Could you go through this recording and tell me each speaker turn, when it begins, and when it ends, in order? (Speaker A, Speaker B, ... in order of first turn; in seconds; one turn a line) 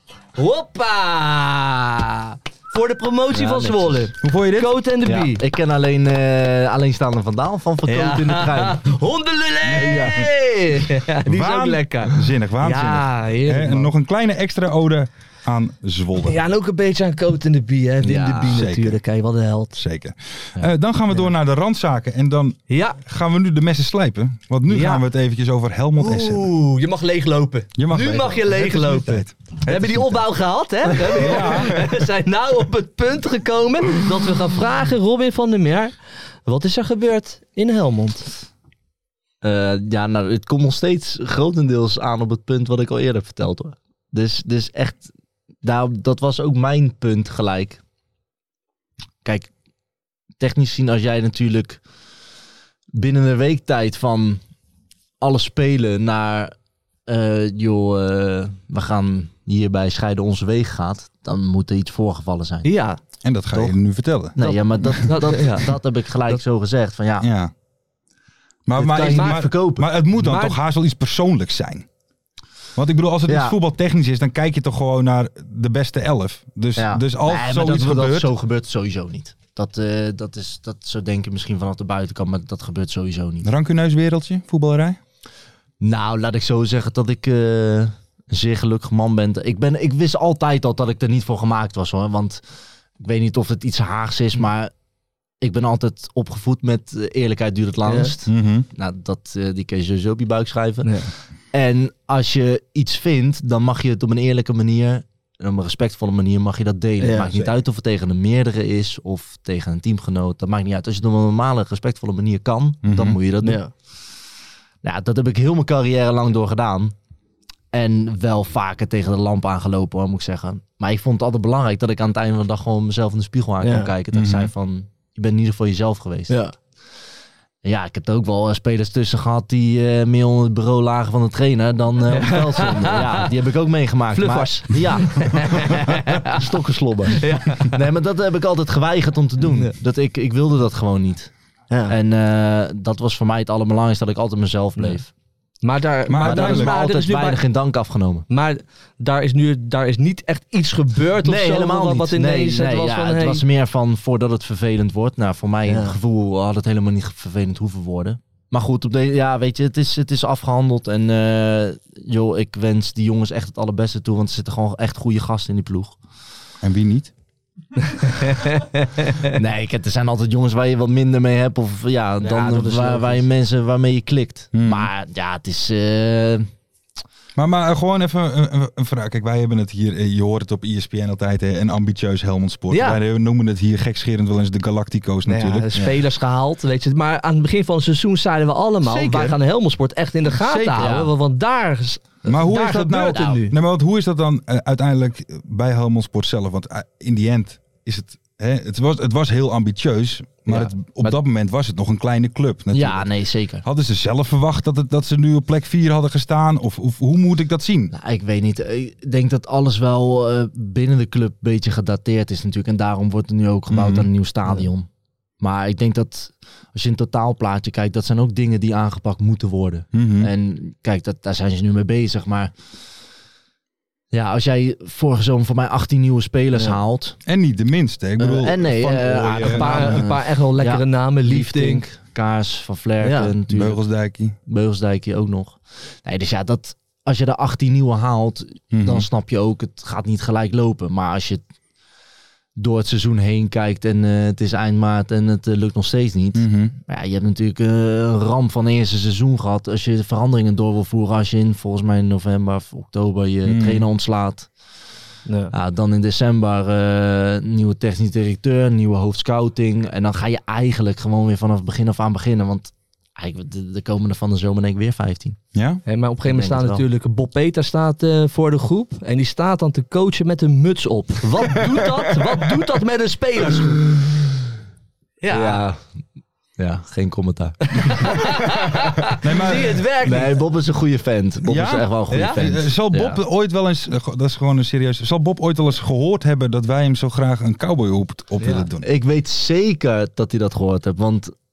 Speaker A: 0.4-5.4
Speaker B: 3.3-4.1
Speaker C: 4.2-4.8
Speaker B: 5.0-8.8
Speaker A: 7.9-13.9
Speaker C: 9.6-10.3
Speaker B: 9.7-10.2
Speaker C: 11.2-16.4
Speaker A: 16.2-19.8
Speaker B: 18.0-18.6
Speaker C: 18.5-19.0
Speaker C: 19.7-26.5
Speaker A: 22.7-23.0
Speaker A: 24.7-25.0
Speaker A: 25.9-35.9
Speaker C: 27.8-30.2
Speaker C: 31.1-31.9
Speaker A: 36.5-38.4
Speaker B: 39.4-45.1
Speaker B: 45.6-47.8
Speaker B: 49.2-49.5
Speaker B: 50.4-51.8
Speaker B: 52.9-54.4
Speaker B: 55.2-56.5
Speaker B: 57.0-62.7
Speaker A: 62.6-63.0
Speaker C: 63.2-65.1
Speaker B: 63.5-63.8
Speaker B: 64.4-67.3
Speaker A: 64.4-65.7
Speaker C: 67.2-67.5
Speaker C: 68.7-71.9
Speaker B: 68.8-69.9
Speaker A: 68.8-70.6
Speaker C: 72.8-78.3
Speaker B: 73.3-73.5
Speaker B: 76.8-83.5
Speaker C: 83.4-85.0
Speaker B: 85.8-92.4
Speaker B: 93.0-94.7
Speaker B: 95.4-113.6
Speaker A: 97.8-98.1
Speaker C: 98.3-98.7
Speaker A: 100.8-101.1
Speaker A: 107.0-107.5
Speaker C: 112.8-113.2
Speaker A: 113.4-113.7
Speaker B: 114.8-116.9
Speaker B: 117.7-126.4
Speaker A: 123.6-123.9
Speaker C: 124.1-124.5
Speaker A: 126.3-126.5
Speaker B: 127.6-141.3
Speaker A: 132.1-133.3
Speaker A: 134.1-136.4
Speaker A: 137.1-137.8
Speaker A: 141.7-141.9
Speaker B: 141.9-145.1
Speaker A: 145.6-147.4
Speaker C: 146.1-146.7
Speaker B: 146.2-148.3
Speaker A: 148.3-153.4
Speaker B: 151.2-166.0
Speaker A: 155.7-155.9
Speaker C: 166.6-167.1
Speaker A: 168.0-169.4
Speaker B: 169.3-176.5
Speaker A: 172.2-173.2
Speaker C: 174.5-174.9
Speaker C: 177.4-185.9
Speaker A: 182.7-183.0
Speaker A: 185.3-193.5
Speaker C: 188.8-189.4
Speaker C: 190.3-190.9
Speaker B: 190.7-191.1
Speaker C: 192.3-203.1
Speaker B: 200.5-201.2
Speaker B: 202.7-203.6
Speaker C: 203.6-207.9
Speaker B: 207.9-214.9
Speaker C: 213.7-214.1
Speaker B: 215.4-222.5
Speaker C: 219.9-220.3
Speaker B: 224.1-227.2
Speaker C: 227.3-230.1
Speaker B: 228.2-233.8
Speaker A: 229.4-231.8
Speaker A: 233.0-233.4
Speaker C: 233.5-234.4
Speaker B: 234.5-241.4
Speaker C: 238.7-239.1
Speaker B: 242.6-254.5
Speaker C: 246.4-246.7
Speaker C: 253.4-253.8
Speaker A: 255.3-255.5
Speaker B: 255.5-265.4
Speaker C: 265.6-265.8
Speaker A: 265.9-273.8
Speaker B: 266.3-266.8
Speaker A: 275.2-275.6
Speaker B: 275.3-275.8
Speaker B: 276.6-278.1
Speaker A: 277.7-280.3
Speaker C: 279.2-279.9
Speaker B: 280.0-283.2
Speaker C: 281.4-288.9
Speaker A: 282.1-282.4
Speaker A: 288.4-288.6
Speaker B: 288.8-291.3